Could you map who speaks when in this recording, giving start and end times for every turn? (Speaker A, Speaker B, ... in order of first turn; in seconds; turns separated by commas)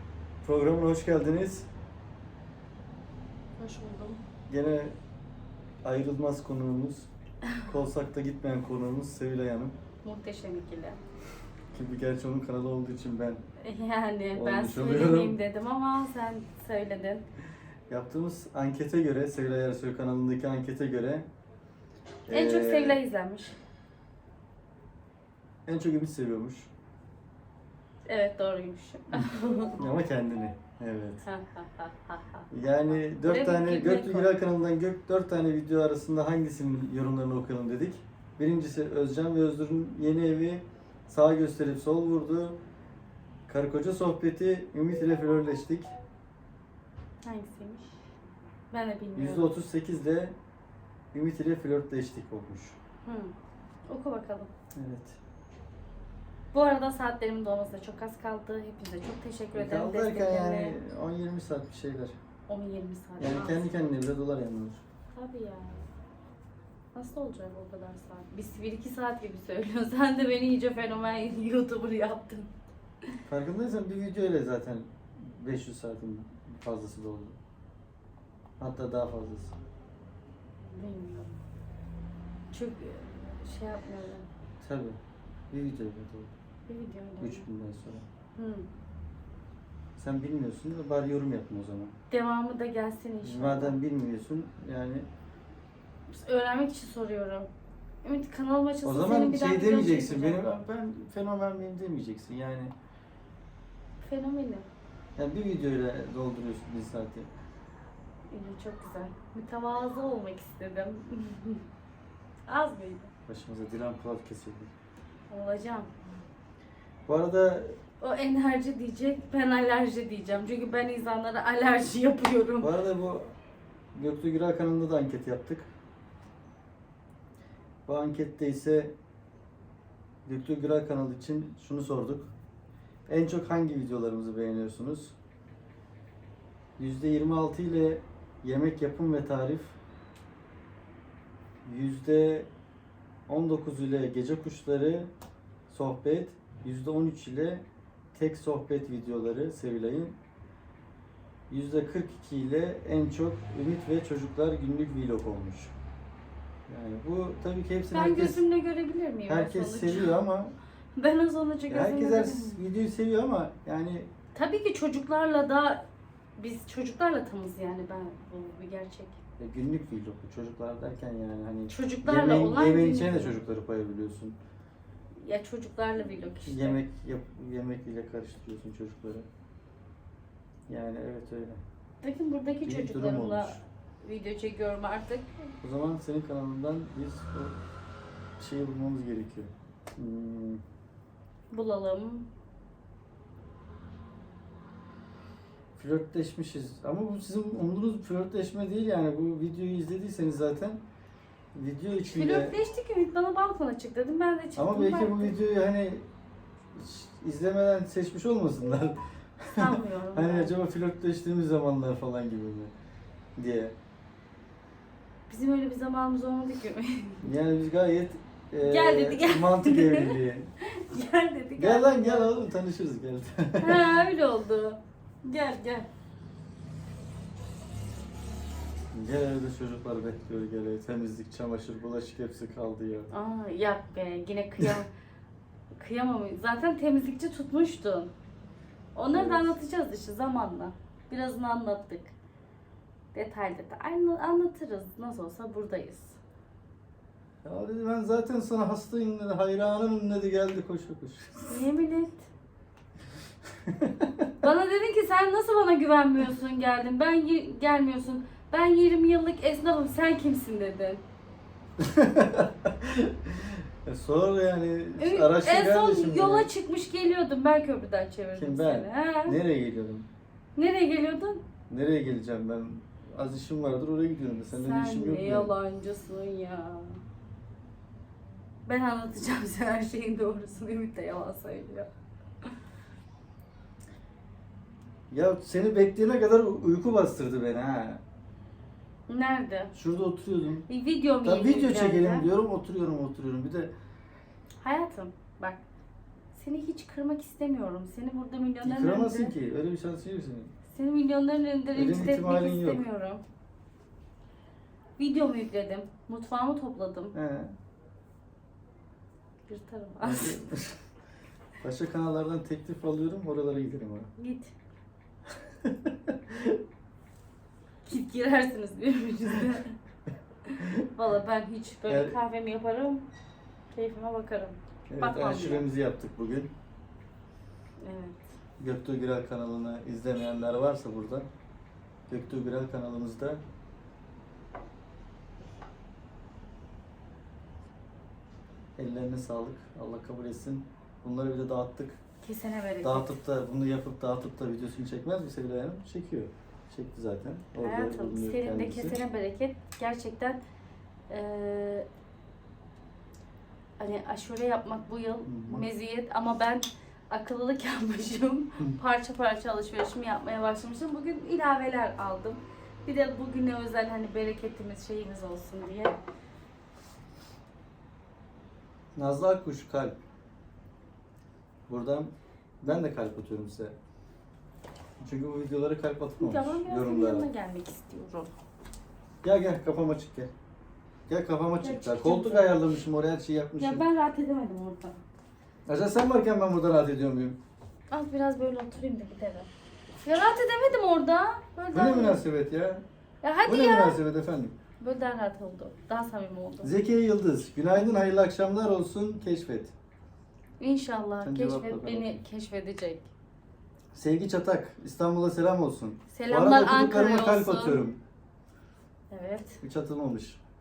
Speaker A: 0.4-1.7, Speaker B: 3.6-4.2, Speaker A: 4.5-5.0, Speaker A: 5.8-9.7, Speaker B: 10.0-11.0, Speaker A: 11.7-13.4, Speaker B: 13.6-17.2, Speaker A: 14.3-15.3, Speaker A: 17.9-21.3, Speaker A: 22.3-23.0, Speaker B: 22.3-23.6, Speaker A: 25.6-26.7, Speaker B: 28.1-29.8, Speaker A: 29.1-31.2, Speaker B: 31.2-34.3, Speaker A: 32.5-42.6, Speaker A: 43.5-45.9, Speaker B: 47.2-48.0, Speaker B: 48.7-49.5, Speaker A: 49.2-50.4, Speaker A: 51.1-52.8, Speaker B: 53.0-53.3, Speaker B: 53.9-54.5, Speaker A: 54.7-55.2, Speaker B: 56.5-60.8, Speaker A: 59.5-62.1, Speaker B: 62.5-63.7, Speaker A: 63.2-64.8, Speaker B: 65.1-65.9, Speaker B: 66.9-72.5, Speaker A: 73.2-77.4, Speaker A: 78.6-79.5, Speaker B: 80.6-81.3, Speaker B: 82.5-84.3, Speaker A: 84.6-85.0, Speaker A: 85.5-86.3, Speaker B: 86.7-87.5, Speaker A: 87.2-88.0, Speaker B: 88.3-88.7, Speaker A: 90.0-91.9, Speaker B: 92.1-93.8, Speaker A: 93.2-95.1, Speaker B: 96.1-97.5, Speaker B: 98.0-100.4, Speaker A: 98.8-102.7, Speaker B: 104.0-104.7, Speaker A: 105.2-107.3, Speaker B: 108.3-111.6, Speaker B: 112.5-113.1, Speaker A: 113.3-114.7, Speaker B: 115.3-115.9, Speaker A: 117.1-117.8, Speaker B: 118.0-122.7, Speaker A: 122.6-123.3, Speaker A: 123.9-125.7, Speaker A: 127.9-128.9, Speaker A: 130.2-132.3, Speaker A: 133.1-135.1, Speaker A: 136.8-139.8, Speaker A: 141.6-142.5, Speaker A: 143.3-145.1, Speaker A: 145.7-150.2, Speaker A: 151.5-155.7, Speaker A: 156.7-158.4, Speaker B: 157.9-160.1, Speaker A: 159.3-160.5, Speaker B: 160.9-162.6, Speaker A: 161.7-164.1, Speaker B: 164.3-165.8, Speaker B: 166.4-169.2, Speaker A: 169.4-174.4, Speaker B: 171.7-173.4, Speaker B: 175.1-176.8, Speaker A: 176.4-179.3, Speaker A: 180.7-181.6, Speaker B: 182.0-185.5, Speaker A: 182.7-183.6, Speaker A: 185.6-187.6, Speaker A: 188.4-190.6, Speaker B: 191.5-192.3, Speaker A: 195.8-200.8, Speaker A: 201.5-202.6, Speaker B: 202.0-205.3, Speaker A: 204.6-206.1, Speaker A: 206.7-212.7, Speaker B: 209.6-210.5, Speaker A: 213.3-213.7, Speaker B: 215.3-217.3, Speaker A: 217.2-220.5, Speaker B: 218.6-222.3, Speaker A: 221.6-223.9, Speaker B: 223.6-225.9, Speaker A: 228.9-233.1, Speaker B: 233.1-234.9, Speaker B: 235.7-238.1, Speaker B: 238.9-242.1, Speaker A: 239.1-239.5, Speaker B: 243.1-246.2, Speaker A: 247.4-251.6, Speaker B: 251.5-252.3, Speaker A: 253.6-254.3, Speaker B: 254.4-261.0, Speaker A: 261.8-266.5, Speaker B: 265.0-269.4, Speaker A: 268.4-270.1, Speaker B: 270.5-271.4, Speaker A: 271.7-275.5, Speaker B: 274.5-277.0, Speaker B: 278.6-281.9, Speaker A: 285.1-288.0, Speaker B: 289.1-289.7, Speaker A: 289.7-290.6, Speaker B: 290.7-292.3, Speaker A: 291.2-293.7, Speaker B: 294.6-295.6, Speaker B: 296.3-299.3, Speaker A: 298.6-300.5, Speaker B: 300.7-303.2, Speaker A: 301.7-302.8, Speaker B: 305.0-307.1, Speaker A: 307.1-307.5, Speaker B: 309.5-310.4, Speaker A: 310.0-310.8, Speaker A: 311.6-314.1, Speaker B: 314.2-314.5, Speaker A: 315.6-316.6, Speaker B: 317.8-319.8, Speaker B: 320.5-323.1, Speaker A: 320.6-320.9, Speaker A: 321.9-322.1, Speaker B: 323.7-325.6, Speaker A: 324.9-326.5, Speaker B: 327.8-328.2, Speaker A: 328.6-331.3, Speaker A: 332.1-333.4, Speaker A: 338.8-342.0, Speaker B: 342.2-343.1, Speaker A: 342.8-349.0, Speaker B: 347.6-350.4, Speaker B: 351.1-351.9, Speaker B: 353.8-366.0, Speaker A: 355.2-355.6, Speaker A: 368.9-369.9, Speaker A: 371.7-373.7, Speaker A: 375.0-377.3, Speaker B: 376.2-378.3, Speaker A: 379.2-380.3, Speaker A: 381.1-383.8, Speaker B: 381.6-382.6, Speaker B: 383.6-385.0, Speaker A: 385.7-387.4, Speaker B: 387.9-389.5, Speaker B: 390.0-392.2, Speaker A: 391.7-392.8, Speaker B: 393.2-394.0, Speaker A: 393.4-394.5, Speaker B: 394.8-396.7, Speaker A: 396.6-399.7, Speaker B: 400.6-403.1, Speaker A: 401.2-402.2, Speaker A: 403.9-408.0, Speaker B: 406.1-407.9, Speaker B: 409.1-409.6, Speaker A: 409.6-410.4